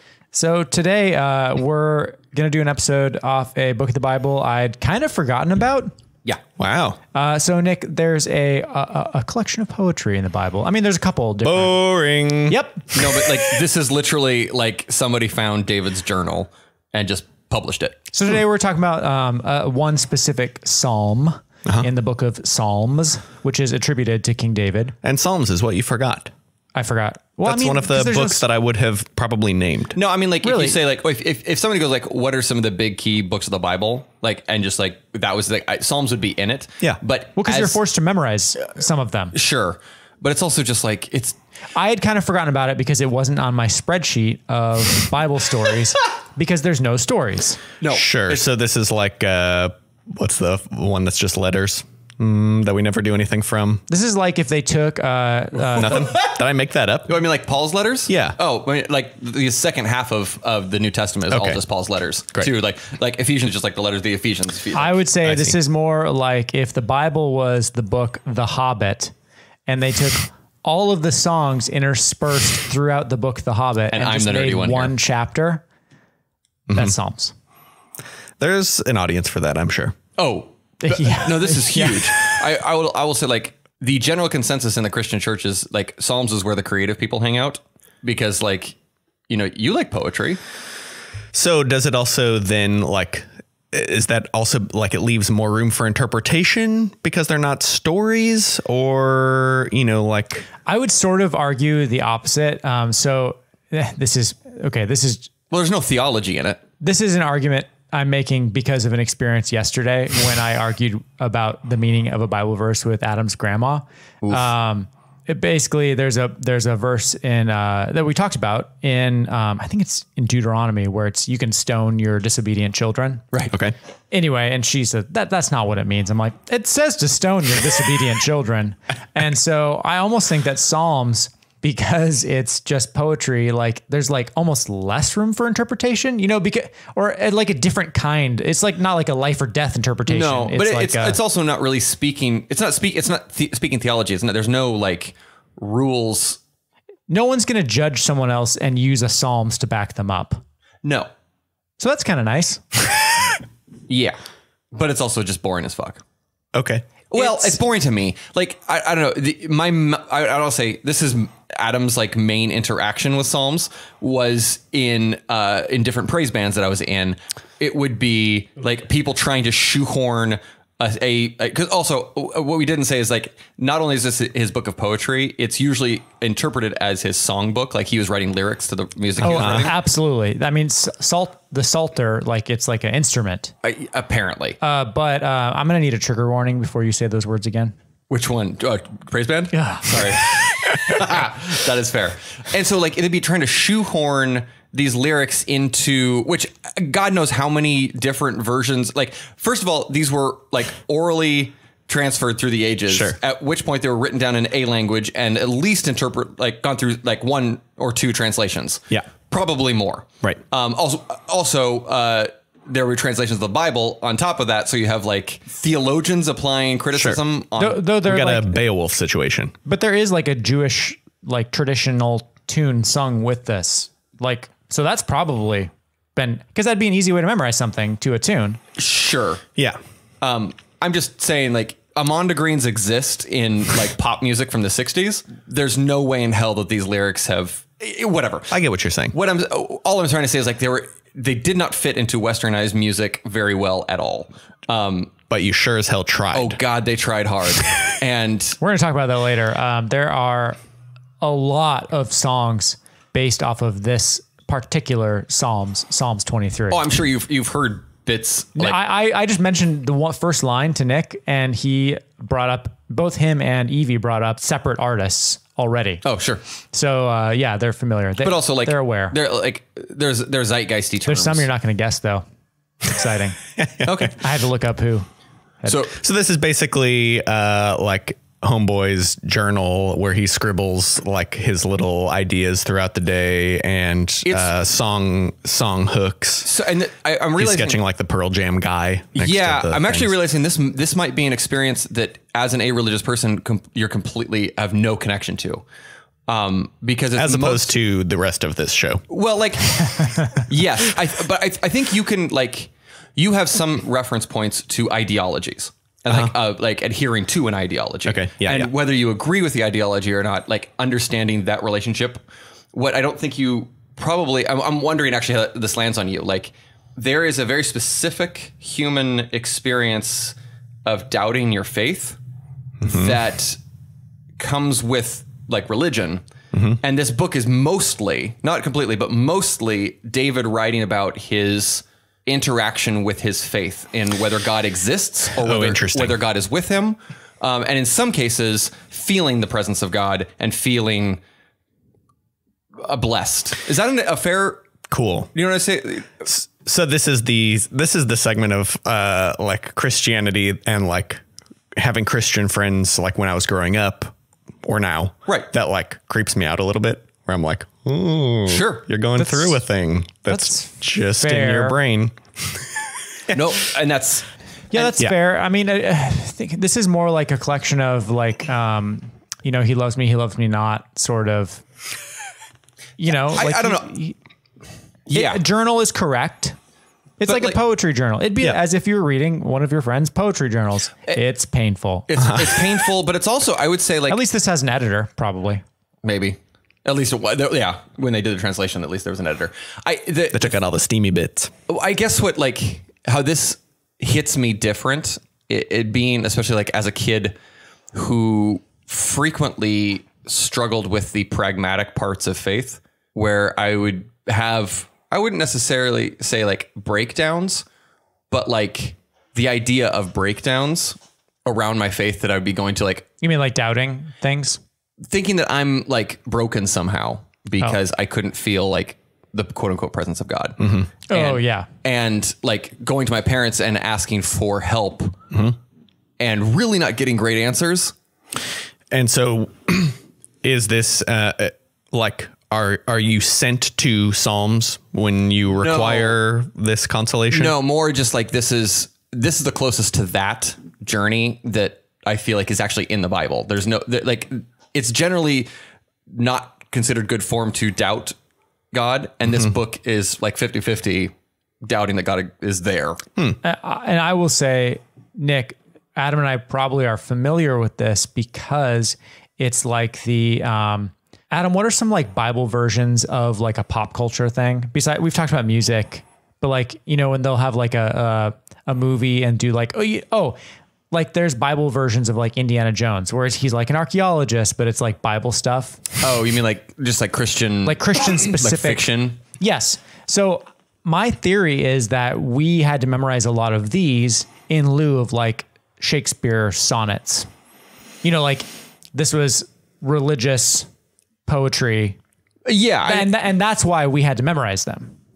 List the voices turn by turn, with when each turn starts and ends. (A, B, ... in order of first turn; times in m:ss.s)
0:00.3-0:05.9 A
0:06.6-0:07.0 B
0:07.2-0:11.8 A
0:11.4-0:12.6 B
0:12.5-0:13.0 A
0:12.9-0:18.0 C
0:18.1-0:25.0 A
0:25.0-0:26.3 B
0:26.8-0:28.4 A
0:27.4-0:30.0 B
0:30.0-0:37.8 C
0:30.4-0:30.8 A
0:37.4-0:39.4 A
0:39.3-0:41.4 C
0:41.8-0:47.6 A
0:47.8-0:48.4 C
0:47.9-0:53.8 B
0:53.9-0:56.1 A
0:55.8-0:57.2 B
0:57.1-1:05.0 C
0:58.1-0:58.4 B
1:01.3-1:01.6 B
1:04.8-1:09.1 A
1:05.2-1:05.6 B
1:09.7-1:15.6 A
1:13.9-1:15.0 C
1:16.7-1:17.0 B
1:16.7-1:17.4 A
1:18.4-1:20.0 B
1:20.2-1:28.8 C
1:20.8-1:22.2 A
1:29.3-1:30.4 C
1:31.3-1:40.5 B
1:40.7-1:45.3 A
1:45.5-1:46.6 C
1:46.8-2:03.2 A
2:04.1-2:21.2 A
2:20.1-2:26.4 C
2:27.1-2:30.4 A
2:30.8-2:31.1 C
2:31.8-2:32.8 A
2:33.9-2:34.2 C
2:34.7-2:36.0 C
2:36.6-2:36.9 B
2:37.1-2:59.7 C
2:37.2-2:37.6 A
2:59.2-3:03.5 A
2:59.2-2:59.7 B
3:03.6-3:04.6 C
3:04.6-3:07.7 A
3:08.1-3:37.8 C
3:09.5-3:10.2 A
3:22.9-3:23.2 B
3:36.9-3:37.2 B
3:37.6-3:38.6 A
3:38.0-3:39.6 B
3:39.7-3:48.6 A
3:48.8-3:49.4 C
3:50.2-3:58.6 C
3:58.5-3:59.2 B
3:59.1-4:05.1 C
4:05.3-4:06.6 B
4:06.3-4:08.6 C
4:08.6-4:10.6 A
4:11.2-4:16.8 A
4:16.7-4:18.8 C
4:18.6-4:26.0 A
4:26.0-4:26.4 C
4:26.7-4:29.2 A
4:28.2-4:31.5 C
4:31.1-4:32.2 A
4:32.8-4:33.4 A
4:33.6-4:34.1 B
4:33.8-4:34.2 C
4:34.1-4:35.1 A
4:35.7-4:36.0 C
4:36.0-4:46.5 B
4:44.2-4:44.5 C
4:46.4-4:47.8 C
4:47.4-4:50.1 B
4:49.2-4:55.6 C
4:56.3-4:57.7 C
4:57.2-4:59.0 B
4:59.1-5:12.2 C
5:08.0-5:08.7 B
5:12.7-5:22.2 C
5:22.8-5:23.2 B
5:22.9-5:23.6 C
5:24.4-5:26.2 C
5:26.5-5:26.8 B
5:26.8-5:41.2 C
5:35.4-5:36.2 B
5:42.8-5:44.6 C
5:44.9-5:45.3 B
5:45.4-5:46.3 C
5:46.3-5:51.2 B
5:51.8-6:03.4 B
5:58.5-5:58.8 C
5:59.2-5:59.6 A
6:00.3-6:01.8 A
6:03.3-6:04.9 C
6:04.7-6:11.6 A
6:13.0-6:14.2 A
6:13.3-6:13.9 C
6:15.1-6:15.4 C
6:15.1-6:16.6 A
6:17.2-6:22.1 A
6:17.3-6:17.6 C
6:22.1-6:24.2 C
6:22.2-6:22.7 B
6:24.1-6:25.6 A
6:26.0-6:30.6 C
6:30.3-6:31.5 B
6:31.7-6:37.4 C
6:37.9-6:47.6 C
6:48.3-6:53.1 C
6:53.2-6:54.6 A
6:55.1-7:00.6 C
7:00.6-7:00.9 B
7:01.1-7:01.7 A
7:01.1-7:05.2 C
7:05.3-7:05.6 B
7:06.2-7:07.9 C
7:08.9-7:17.6 B
7:15.6-7:16.2 C
7:17.3-7:25.5 C
7:26.1-7:28.2 C
7:28.7-7:31.1 C
7:31.6-7:33.0 C
7:33.4-7:50.4 A
7:50.9-7:55.9 A
7:56.0-7:59.2 C
7:57.6-7:58.9 A
7:59.4-8:07.3 A
8:08.0-8:10.7 A
8:11.3-8:12.0 A
8:12.5-8:13.1 C
8:12.8-8:14.9 A